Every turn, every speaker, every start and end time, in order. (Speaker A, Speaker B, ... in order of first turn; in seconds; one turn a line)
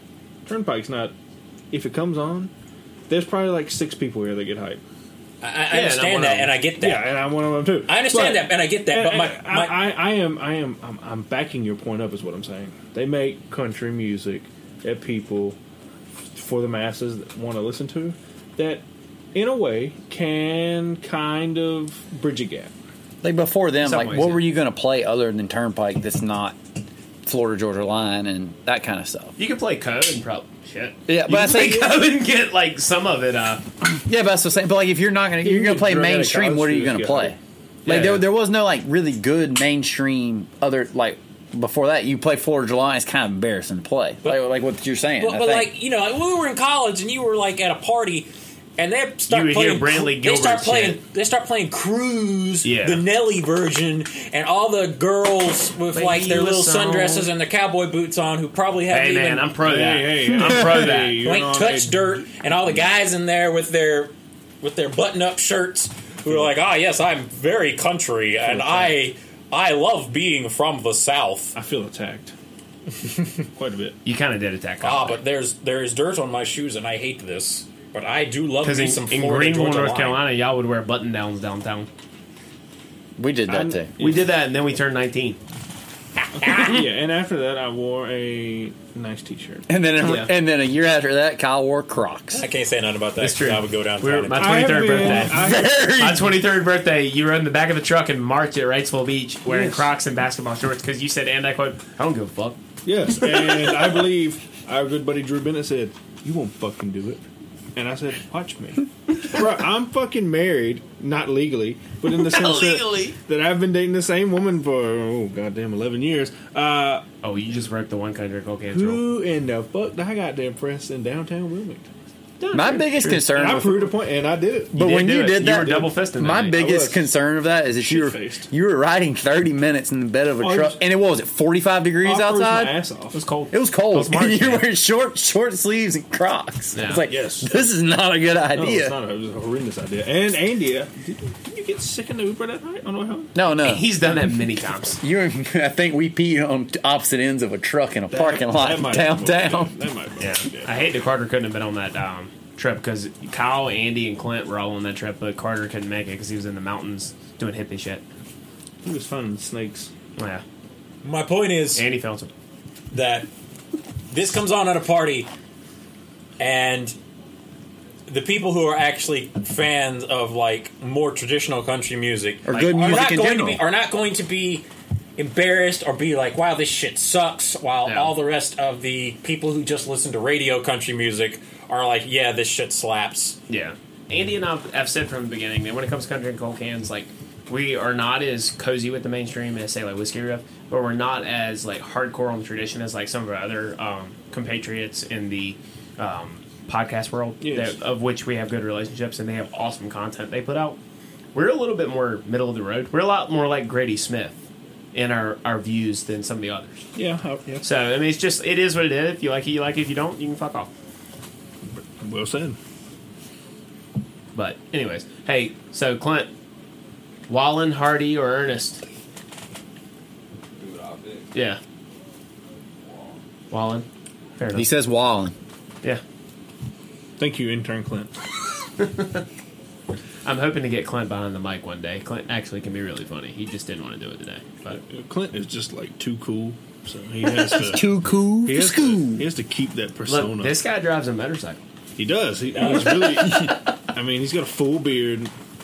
Speaker A: 0.5-1.1
Speaker A: 1.7-2.5
Speaker A: 3.1-4.8
Speaker B: 5.4-7.2
Speaker C: 5.7-6.5
Speaker A: 6.8-15.6
Speaker B: 7.9-9.8
Speaker A: 16.3-18.8
Speaker A: 19.3-22.7
Speaker D: 23.2-26.6
Speaker C: 23.8-24.5
Speaker D: 27.2-29.3
Speaker C: 29.4-33.6
Speaker D: 31.1-32.0
Speaker D: 33.8-45.7
Speaker A: 35.4-37.4
Speaker C: 37.8-38.3
Speaker B: 45.2-59.6
Speaker C: 49.3-51.0
Speaker C: 52.6-53.0
Speaker C: 55.9-57.3
Speaker C: 58.9-61.2
Speaker A: 59.6-62.2
Speaker B: 60.3-71.5
Speaker A: 68.4-68.9
Speaker A: 71.5-72.3
Speaker A: 73.5-74.0
Speaker C: 74.0-75.2
Speaker B: 74.8-80.2
Speaker C: 78.6-81.9
Speaker D: 83.2-83.9
Speaker A: 83.5-84.2
Speaker C: 84.0-85.4
Speaker A: 86.4-89.7
Speaker B: 86.4-86.7
Speaker D: 89.7-92.4
Speaker C: 90.0-90.3
Speaker B: 92.3-95.5
Speaker C: 93.2-102.6
Speaker A: 94.3-96.2
Speaker D: 95.3-96.3
Speaker A: 99.5-99.9
Speaker A: 102.8-107.2
Speaker C: 103.2-103.7
Speaker A: 107.8-117.0
Speaker C: 112.1-113.2
Speaker C: 117.2-119.0
Speaker A: 118.7-121.9
Speaker C: 122.4-123.3
Speaker D: 122.5-123.9
Speaker A: 123.3-125.9
Speaker D: 124.7-132.8
Speaker C: 124.7-126.6
Speaker A: 126.5-127.1
Speaker A: 127.7-128.5
Speaker A: 130.4-130.8
Speaker A: 132.0-133.2
Speaker C: 133.1-134.7
Speaker D: 133.5-138.9
Speaker C: 136.7-137.1
Speaker A: 137.1-137.5
Speaker A: 138.5-143.3
Speaker D: 143.3-144.0
Speaker C: 143.6-145.0
Speaker D: 145.0-149.7
Speaker A: 148.1-151.0
Speaker C: 150.2-158.0
Speaker A: 158.8-159.9
Speaker C: 160.2-160.4
Speaker B: 161.0-161.9
Speaker C: 161.7-162.3
Speaker B: 162.9-163.3
Speaker B: 164.1-165.3
Speaker B: 166.4-166.9
Speaker B: 168.1-174.7
Speaker D: 172.4-173.6
Speaker C: 172.5-173.1
Speaker B: 175.2-183.4
Speaker C: 177.8-178.1
Speaker C: 183.5-200.8
Speaker A: 197.4-197.8
Speaker C: 201.3-206.8
Speaker A: 206.9-207.7
Speaker C: 207.6-210.7
Speaker A: 211.8-212.6
Speaker C: 214.3-216.3
Speaker C: 217.3-218.8
Speaker C: 221.3-221.6
Speaker C: 223.5-223.8
Speaker C: 224.4-224.7
Speaker D: 224.5-225.3
Speaker A: 227.2-228.1
Speaker C: 228.8-229.2
Speaker C: 230.2-234.8
Speaker A: 234.9-240.6
Speaker D: 237.4-239.3
Speaker C: 240.1-241.6
Speaker A: 242.0-245.3
Speaker C: 242.6-243.8